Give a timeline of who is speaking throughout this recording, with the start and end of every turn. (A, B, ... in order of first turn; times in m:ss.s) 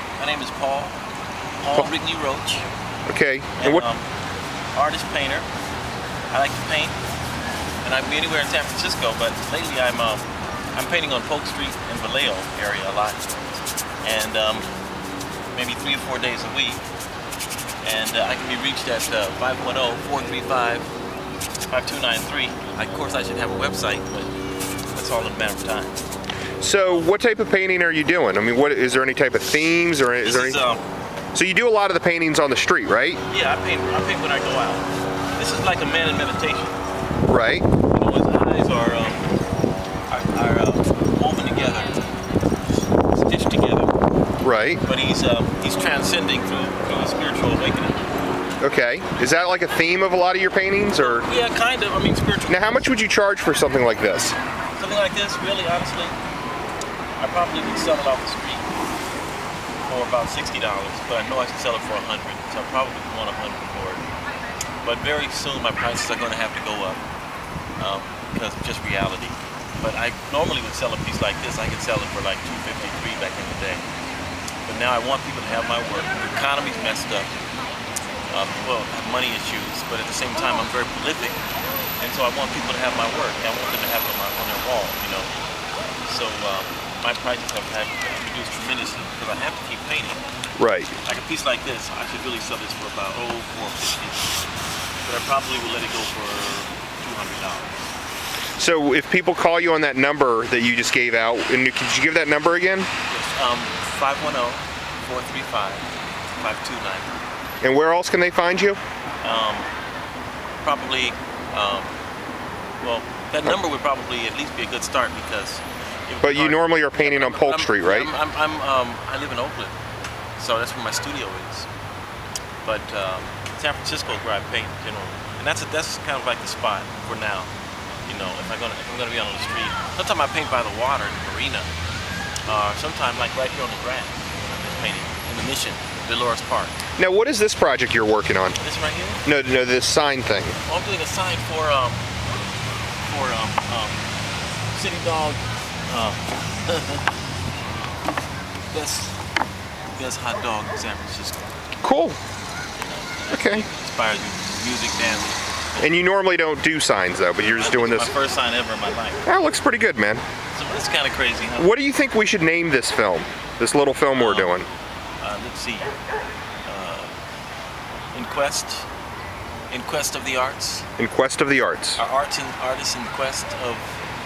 0:00.2-0:01.0 A
0:01.6-0:02.6 A
0:03.0-0:03.8 B
0:03.6-0:04.0 A
0:04.7-0:05.4 A
0:06.3-0:07.0 A
0:07.8-0:13.2 A
0:14.0-0:14.7 A
0:15.5-0:16.8 A
0:17.8-0:20.9 A
0:21.7-0:24.3 A
0:24.9-0:26.0 A
0:26.6-0:30.6 B
0:26.8-0:27.1 A
0:30.2-0:30.8 A
0:31.3-0:33.2 B
0:33.3-0:36.8 A
0:37.3-0:37.6 B
0:37.9-0:39.2 A
0:40.1-0:42.0 A
0:43.1-0:44.0 A
0:44.4-0:44.8 B
0:44.8-0:48.0 A
0:48.6-0:51.3 B
0:51.0-0:52.9 A
0:52.5-0:54.3 B
0:54.8-0:56.2 A
0:57.2-0:58.6 A
0:59.8-1:04.0 A
1:04.8-1:07.0 A
1:07.8-1:13.8 A
1:14.6-1:17.3 A
1:18.3-1:21.4 A
1:22.0-1:25.3 A
1:26.0-1:30.2 A
1:30.6-1:30.9 B
1:31.0-1:34.4 A
1:35.0-1:37.8 A
1:38.6-1:42.9 B
1:43.1-1:47.2 A
1:47.6-1:48.8 B
1:49.2-1:49.7 A
1:50.6-1:51.9 A
1:52.8-1:59.8 A
1:56.2-1:58.1 B
2:00.4-2:01.7 A
2:02.6-2:07.5 A
2:08.0-2:11.7 A
2:12.5-2:16.8 A
2:17.0-2:18.6 B
2:18.6-2:19.2 A
2:19.2-2:20.6 B
2:20.6-2:22.0 A
2:23.0-2:24.0 A
2:24.7-2:27.1 A
2:28.7-2:29.2 A
2:30.0-2:31.4 A
2:31.8-2:32.2 B
2:32.8-2:35.9 A
2:33.3-2:33.6 B
2:35.8-2:38.1 B
2:37.4-2:39.2 A
2:39.2-2:40.2 B
2:40.5-2:41.7 A
2:41.6-2:44.7 B
2:44.1-2:44.6 A
2:45.2-2:45.9 A
2:46.6-2:47.2 A
2:48.1-2:48.9 A
2:49.7-2:50.8 A
2:51.0-2:52.0 B
2:52.0-2:54.0 A